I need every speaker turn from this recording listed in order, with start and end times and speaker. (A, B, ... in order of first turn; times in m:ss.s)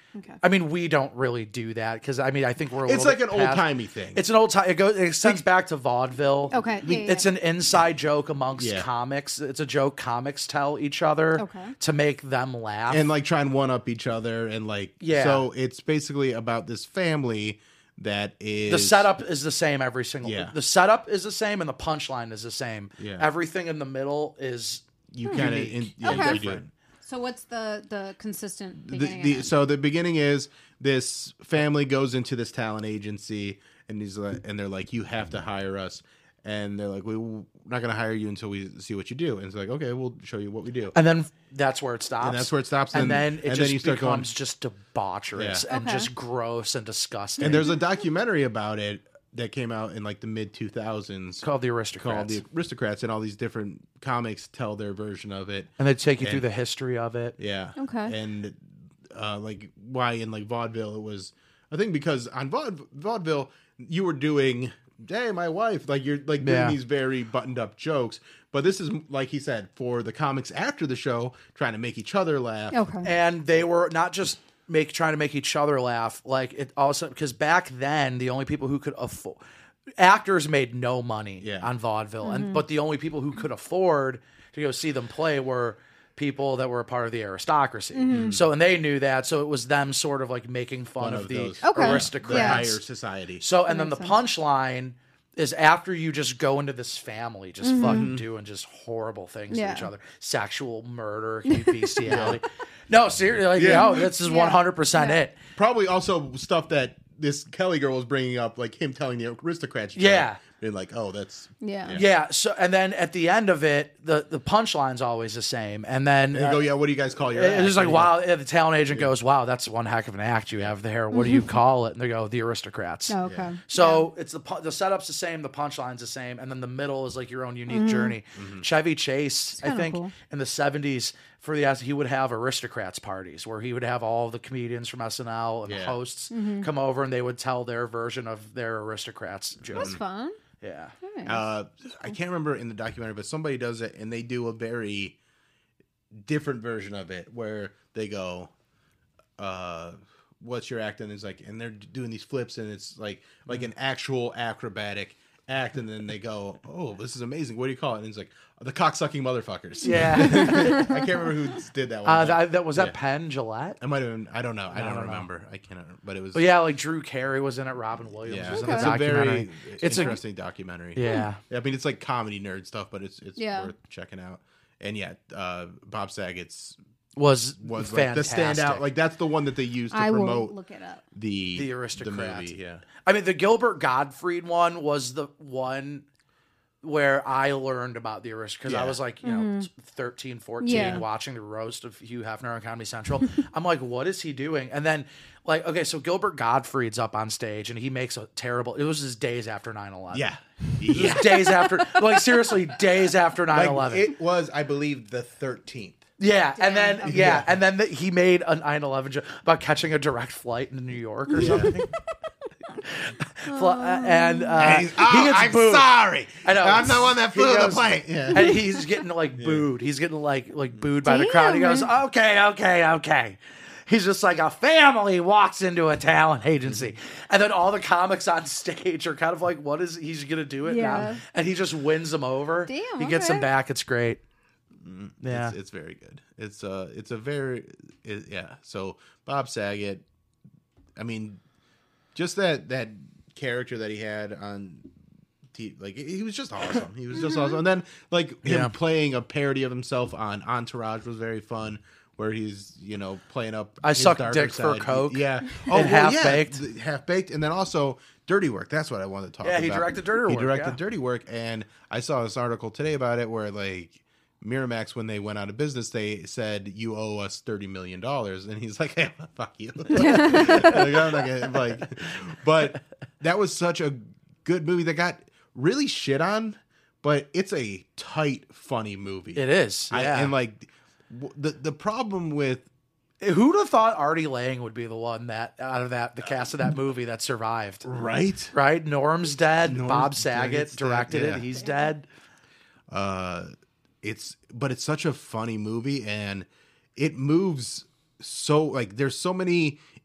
0:00.1-0:00.4 A
0:00.4-0:13.1 B
0:02.8-0:04.2 C
0:06.5-0:07.3 A
0:06.8-0:07.1 C
0:08.6-0:08.9 C
0:11.4-0:11.7 A
0:12.9-0:19.1 C
0:15.0-0:15.5 B
0:18.7-0:26.6 B
0:20.2-0:20.5 C
0:23.0-0:23.3 C
0:25.1-0:26.7 C
0:26.0-0:26.4 A
0:27.0-0:29.5 A
0:28.8-0:40.9 C
0:40.9-0:47.7 B
0:42.2-0:44.3 C
0:45.3-0:45.6 C
0:45.7-0:46.1 A
0:47.4-0:51.4 C
0:51.4-0:52.4 B
0:52.0-0:56.4 C
0:55.8-0:57.4 B
0:57.4-1:12.8 C
0:57.8-0:58.1 A
1:06.4-1:06.8 B
1:12.7-1:13.1 A
1:13.0-1:19.4 B
1:20.0-1:32.8 B
1:21.4-1:21.7 C
1:22.2-1:22.6 A
1:27.9-1:28.3 A
1:28.1-1:28.4 C
1:31.0-1:33.4 C
1:31.6-1:32.7 A
1:33.4-1:45.4 B
1:33.7-1:34.1 A
1:37.6-1:38.1 A
1:37.8-1:38.2 C
1:39.5-1:39.9 A
1:41.5-1:42.2 A
1:42.0-1:42.4 C
1:43.5-1:44.1 C
1:43.6-1:45.2 A
1:45.6-1:52.1 C
1:49.9-1:50.4 B
1:51.6-1:52.0 A
1:51.9-1:56.7 B
1:56.3-1:58.2 C
1:57.3-2:20.0 B
2:01.1-2:01.5 A
2:03.1-2:04.1 A
2:03.2-2:03.5 C
2:07.7-2:08.2 A
2:08.3-2:08.6 C
2:09.6-2:10.1 A
2:15.6-2:16.0 C
2:16.3-2:16.7 A
2:19.6-2:20.0 C
2:19.7-2:20.4 A
2:20.6-2:20.9 B
2:21.0-2:21.4 A
2:21.2-2:25.2 C
2:26.1-2:28.5 C
2:29.4-2:43.0 C
2:39.8-2:40.8 B
2:39.9-2:41.0 A
2:42.0-2:43.8 B
2:43.8-2:46.5 C
2:44.7-2:45.2 B
2:46.3-2:50.2 B
2:48.2-2:56.8 C
2:48.5-2:48.9 A
2:50.9-2:51.4 B
2:53.4-2:53.7 A
2:57.2-2:58.8 B
2:57.6-3:00.6 C
2:59.9-3:01.0 A
3:01.1-3:02.8 C
3:01.6-3:06.0 B
3:06.8-3:20.3 B
3:08.6-3:09.0 C
3:09.2-3:09.7 A
3:10.6-3:11.0 A
3:10.7-3:11.0 C
3:20.1-3:21.7 C
3:20.9-3:24.1 B
3:23.5-3:26.0 C
3:26.2-3:31.9 B
3:26.6-3:27.3 A
3:27.0-3:27.5 C
3:31.4-3:31.8 C
3:32.8-3:54.2 B
3:33.5-3:34.8 A
3:34.6-3:38.5 C
3:39.3-3:39.7 C
3:41.0-3:41.9 A
3:46.6-3:46.9 C
3:50.6-3:51.2 A
3:52.7-3:53.5 A
3:54.8-4:00.0 C
3:55.2-3:55.6 B
4:01.0-4:01.4 C
4:02.1-4:04.9 C
4:05.5-4:42.6 C
4:07.2-4:07.6 A
4:08.4-4:08.7 B
4:13.8-4:16.6 B
4:19.4-4:20.8 B
4:29.9-4:30.9 A
4:30.0-4:30.8 B
4:39.3-4:40.3 B
4:43.2-4:47.8 B
4:47.8-4:48.5 C
4:48.5-4:52.0 B
4:49.6-4:51.5 C
4:52.9-4:53.5 C
4:54.0-4:59.8 C